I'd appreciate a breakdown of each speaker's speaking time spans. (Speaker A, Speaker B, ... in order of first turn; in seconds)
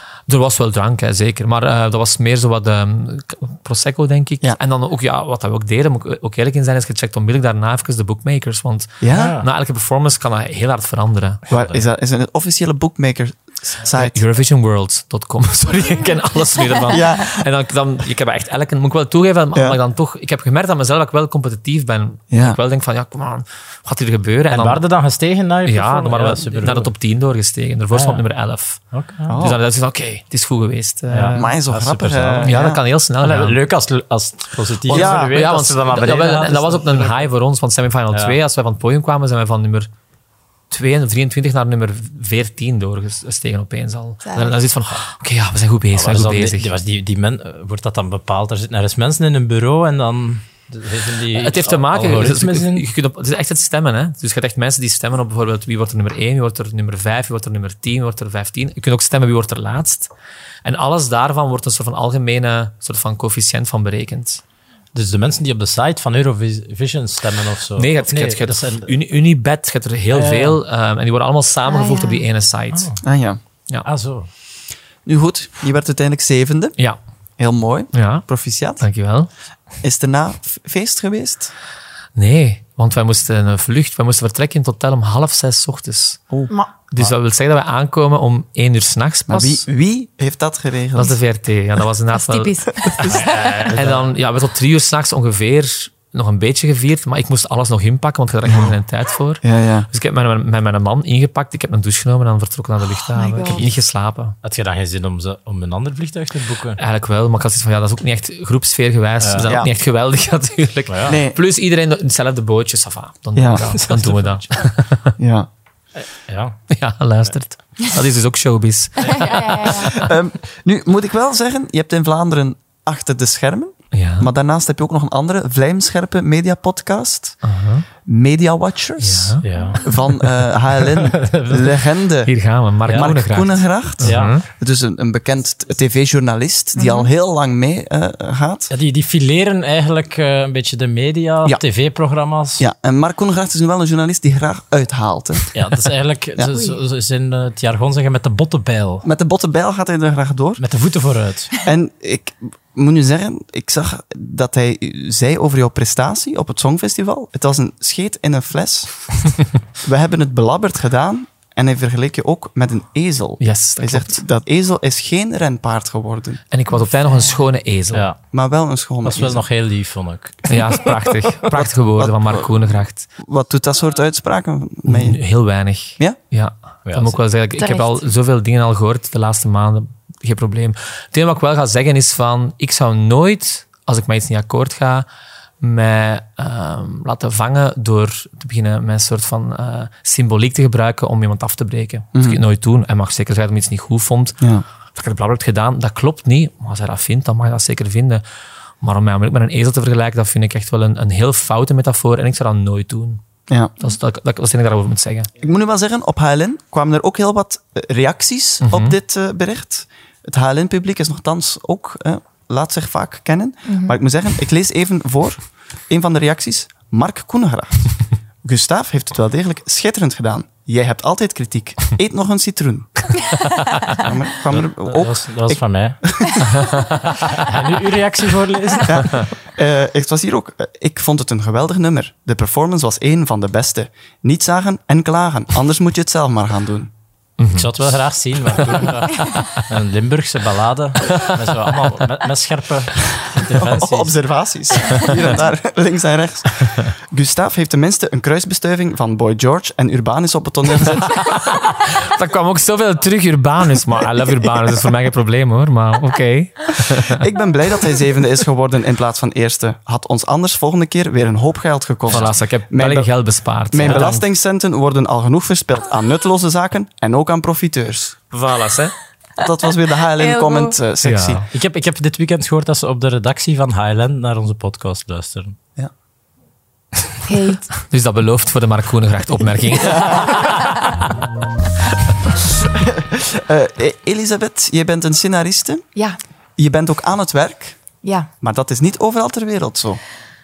Speaker A: 0.3-11.4, 13.9-24.8, 25.6-28.8, 29.4-31.5, 32.4-33.6, 34.9-39.9, 40.7-46.7, 51.3-60.1, 60.6-64.4, 67.8-72.9, 77.9-78.2, 78.8-79.3, 82.2-86.3, 86.9-89.7, 91.0-104.3, 106.8-115.1, 116.7-120.1, 123.9-124.3, 127.4-127.8, 129.0-129.4, 132.3-134.4, 163.4-164.2, 166.5-168.1, 170.5-173.1, 174.8-185.1, 185.6-194.4, 194.9-198.2, 198.8-203.2, 203.8-205.3, 208.6-208.9, 226.6-227.0, 237.4-237.7, 251.2-257.2, 262.1-264.2, 268.3-268.9, 271.0-271.4, 277.8-280.4
Speaker B: 9.0-9.4, 11.5-14.2, 16.9-17.5, 22.3-22.6, 29.3-29.6, 31.3-32.8, 34.9-35.4, 73.0-73.4, 75.0-76.8, 77.4-78.8, 79.8-81.5, 89.3-91.2, 98.5-98.7, 99.4-99.9, 109.4-109.7, 111.1-111.4, 113.3-113.6, 115.2-115.5, 119.8-127.4, 128.0-132.3, 132.9-138.7, 142.6-145.5, 149.0-150.6, 151.6-166.4, 168.3-169.4, 171.5-175.2, 192.1-192.4, 205.4-223.2, 223.9-226.4, 228.8-236.9, 243.4-251.3, 257.1-263.1, 263.7-268.2, 269.4-271.4, 279.8-280.4, 282.6-285.9, 286.6-287.8, 288.4-290.0
Speaker C: 9.1-9.4, 11.5-11.8, 24.5-26.9, 27.9-28.2, 28.9-29.4, 31.1-32.5, 33.2-37.2, 45.9-52.9, 64.9-68.9, 70.1-70.6, 72.7-73.0, 73.8-74.3, 93.0-94.0, 104.4-106.8, 109.2-109.6, 110.9-111.2, 113.6-114.5, 116.0-116.6, 129.4-129.9, 130.8-131.8, 134.0-134.3, 138.7-142.6, 145.5-149.0, 150.6-151.5, 167.9-168.2, 169.0-170.8, 176.8-177.2, 224.5-226.0, 227.2-229.2, 237.5-244.1, 263.8-264.1, 271.5-275.6
Speaker D: 44.2-44.6, 71.7-72.2, 92.1-93.7, 103.1-103.7, 119.0-120.0, 136.8-137.1, 177.6-178.0, 213.7-213.9, 270.1-270.8, 277.2-277.7, 280.4-280.6, 288.0-288.3